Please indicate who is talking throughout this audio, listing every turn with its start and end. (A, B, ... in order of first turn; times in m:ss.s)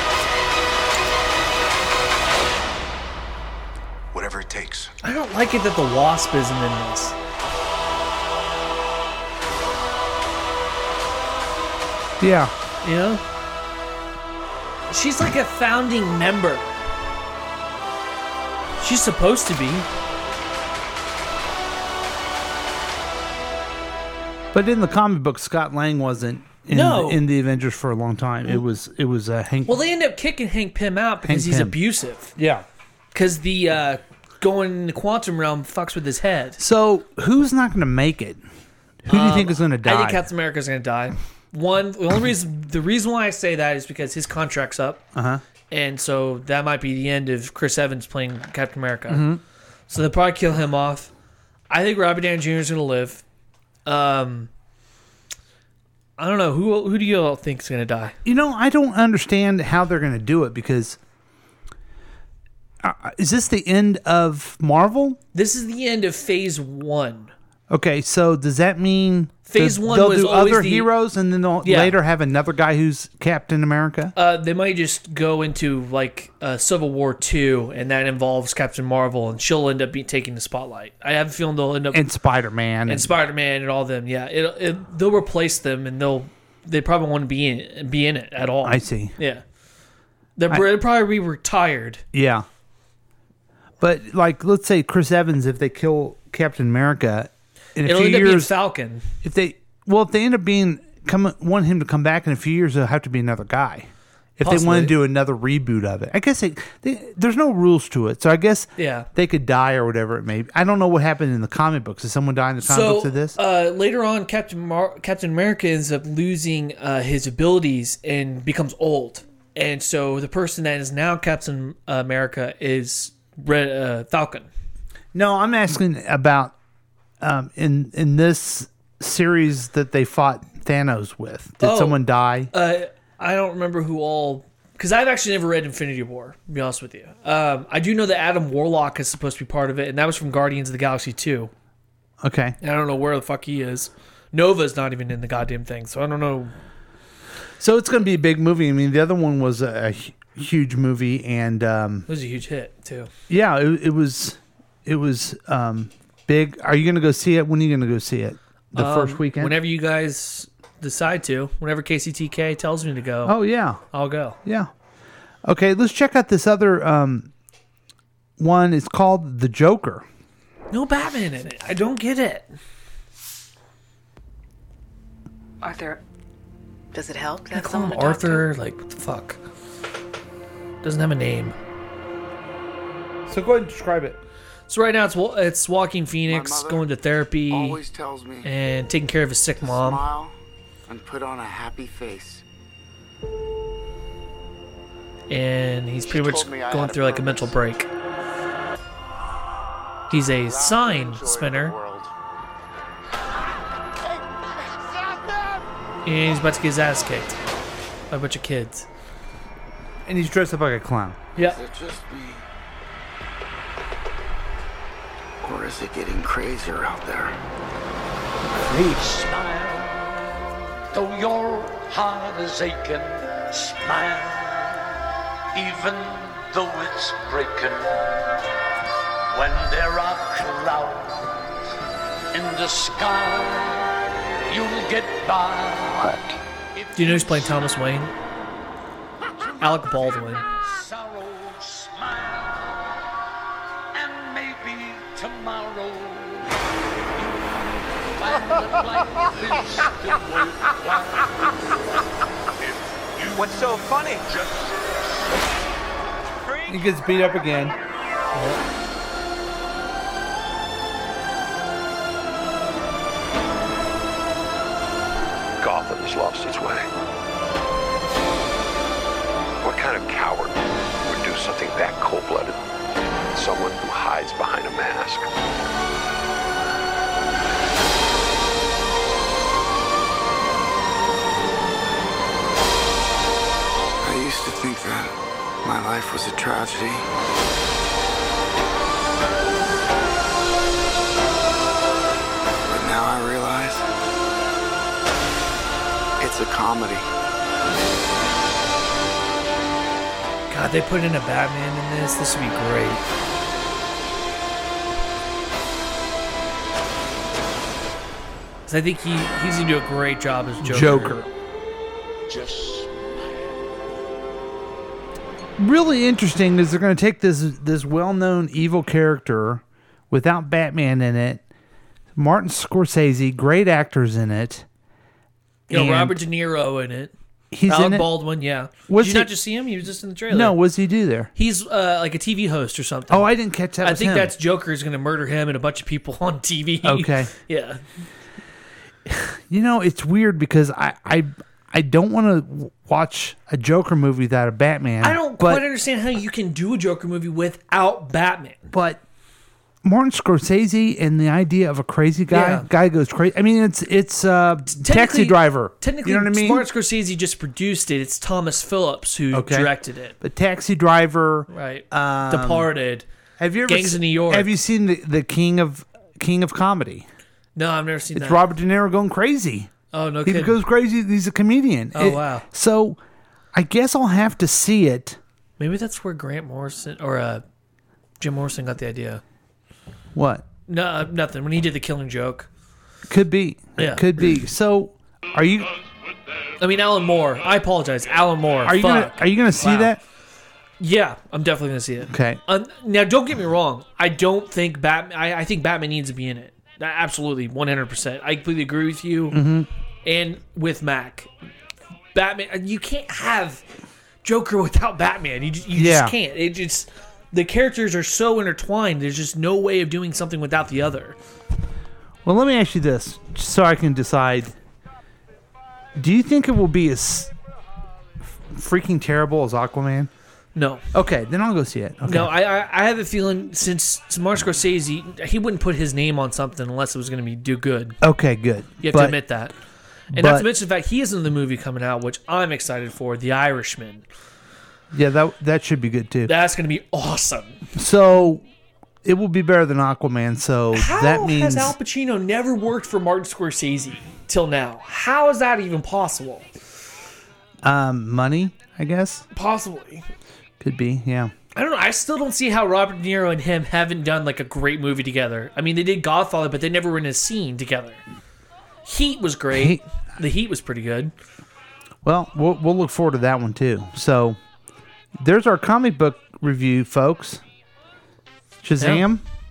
0:04.1-0:04.9 A
0:05.0-0:07.1 B
0:12.2-0:12.5 C
0:12.8-0:13.2 B
0:14.9-0:16.8 B
0:18.8-0:19.9 B
0:24.5-0:29.8 C
0:26.7-0:27.2 B
0:29.7-0:32.3 B
0:31.2-0:31.8 C
0:32.4-0:32.6 C
0:33.1-0:36.6 B
0:36.6-0:38.4 C
0:39.0-0:40.2 C
0:39.1-0:45.0 B
0:45.1-0:45.4 C
0:45.7-0:49.3 B
0:49.1-0:49.4 C
0:49.9-0:51.1 B
0:51.7-0:53.2 B
0:53.9-0:54.5 B
0:56.2-0:58.2 B
0:58.2-1:01.0 C
1:02.8-1:05.2 C
1:05.3-1:07.3 B
1:07.7-1:14.1 C
1:09.5-1:10.9 B
1:11.6-1:12.0 B
1:14.2-1:22.0 B
1:21.9-1:23.1 C
1:22.9-1:29.4 B
1:28.6-1:29.1 C
1:30.4-1:32.0 B
1:32.1-1:32.4 C
1:33.8-1:38.5 C
1:37.8-1:39.1 B
1:39.2-1:53.4 C
1:44.4-1:45.0 B
1:48.8-1:49.1 B
1:52.6-2:04.5 B
2:05.1-2:06.5 C
2:07.2-2:12.5 C
2:11.6-2:21.5 B
2:22.2-2:22.6 C
2:22.6-2:26.5 B
2:27.6-2:32.1 C
2:32.1-2:33.1 B
2:33.3-2:39.6 C
2:38.7-2:43.4 B
2:43.2-2:43.8 C
2:43.9-2:44.4 B
2:44.4-2:44.7 C
2:45.4-2:47.3 C
2:48.4-2:50.1 C
2:50.7-2:52.5 B
2:55.6-2:56.0 D
2:56.9-2:58.5 D
2:57.5-2:59.4 B
3:00.8-3:01.6 B
3:03.3-3:04.2 C
3:04.7-3:07.8 B
3:06.3-3:06.9 A
3:07.5-3:08.5 A
3:08.4-3:10.0 B
3:09.6-3:10.4 A
3:10.9-3:12.4 A
3:15.3-3:17.9 B
3:16.0-3:17.7 A
3:20.1-3:21.8 B
3:20.4-3:22.0 E
3:21.2-3:22.0 A
3:26.0-3:27.4 B
3:28.1-3:28.9 B
3:30.1-3:31.2 C
3:31.4-3:32.4 A
3:35.4-3:37.3 A
3:38.6-3:40.1 E
3:38.6-3:38.9 C
3:40.9-3:44.9 E
3:45.5-3:48.4 E
3:49.3-3:51.4 E
3:52.3-3:54.0 E
3:54.5-3:56.1 E
3:56.7-3:57.9 E
3:57.0-3:58.1 B
3:59.4-4:03.0 E
3:59.6-4:00.4 B
4:03.9-4:06.6 E
4:07.1-4:11.5 E
4:12.6-4:15.4 E
4:16.7-4:17.8 C
4:18.3-4:18.6 B
4:25.6-4:26.9 F
4:29.6-4:32.6 F
4:33.3-4:35.3 F
4:44.0-4:45.1 A
4:45.6-4:47.0 A
4:52.7-4:53.8 A
4:56.2-4:57.0 A
5:00.5-5:03.0 B
5:08.7-5:11.2 B
5:10.6-5:11.3 C
5:12.3-5:13.5 E
5:15.6-5:21.4 C
5:22.1-5:24.7 C
5:25.7-5:26.2 C
5:25.7-5:27.1 B
5:27.5-5:28.1 C
5:27.7-5:30.6 B
5:28.9-5:29.3 C
5:30.3-5:31.3 C
5:31.4-5:33.3 B
5:33.1-5:34.3 C
5:33.8-5:37.8 B
5:36.8-5:37.3 C
5:39.1-5:45.6 C
5:45.0-5:48.7 B
5:48.7-5:49.0 C
5:49.8-5:56.7 C
5:52.3-5:52.7 B
5:54.7-6:00.2 B
5:59.3-6:02.7 C
6:01.5-6:03.0 B
6:03.4-6:07.1 C
6:03.7-6:04.5 B
6:07.6-6:08.4 B
6:08.1-6:09.7 C
6:09.9-6:10.6 B
6:10.2-6:13.0 C
6:11.9-6:12.4 B
6:13.5-6:15.2 C
6:15.6-6:17.4 B
6:18.2-6:19.2 B
6:20.1-6:20.4 C
6:20.7-6:22.5 B
6:23.1-6:25.7 C
6:23.8-6:24.3 B
6:26.6-6:30.0 B
6:28.6-6:30.0 C
6:30.8-6:39.4 B
6:32.1-6:32.4 C
6:39.3-6:39.7 C
6:40.0-6:41.3 B
6:42.1-6:43.6 B
6:44.2-6:51.2 B
6:45.7-6:46.1 C
6:52.2-6:54.6 C
6:56.0-6:57.3 C
6:58.5-7:00.1 C
7:00.6-7:00.8 B
7:00.9-7:02.3 C
7:02.1-7:08.0 B
7:08.0-7:09.2 C
7:08.8-7:09.5 B
7:10.1-7:14.0 B
7:10.1-7:10.5 C
7:14.9-7:16.3 C
7:16.3-7:17.6 B
7:17.7-7:18.4 C
7:19.0-7:21.8 C
7:20.7-7:26.5 B
7:27.6-7:29.2 C
7:29.3-7:30.0 B
7:30.6-7:31.3 C
7:31.6-7:38.0 B
7:38.8-7:41.1 B
7:39.5-7:39.8 C
7:42.0-7:44.4 C
7:45.2-7:47.4 C
7:48.6-7:49.2 C
7:48.8-7:49.0 B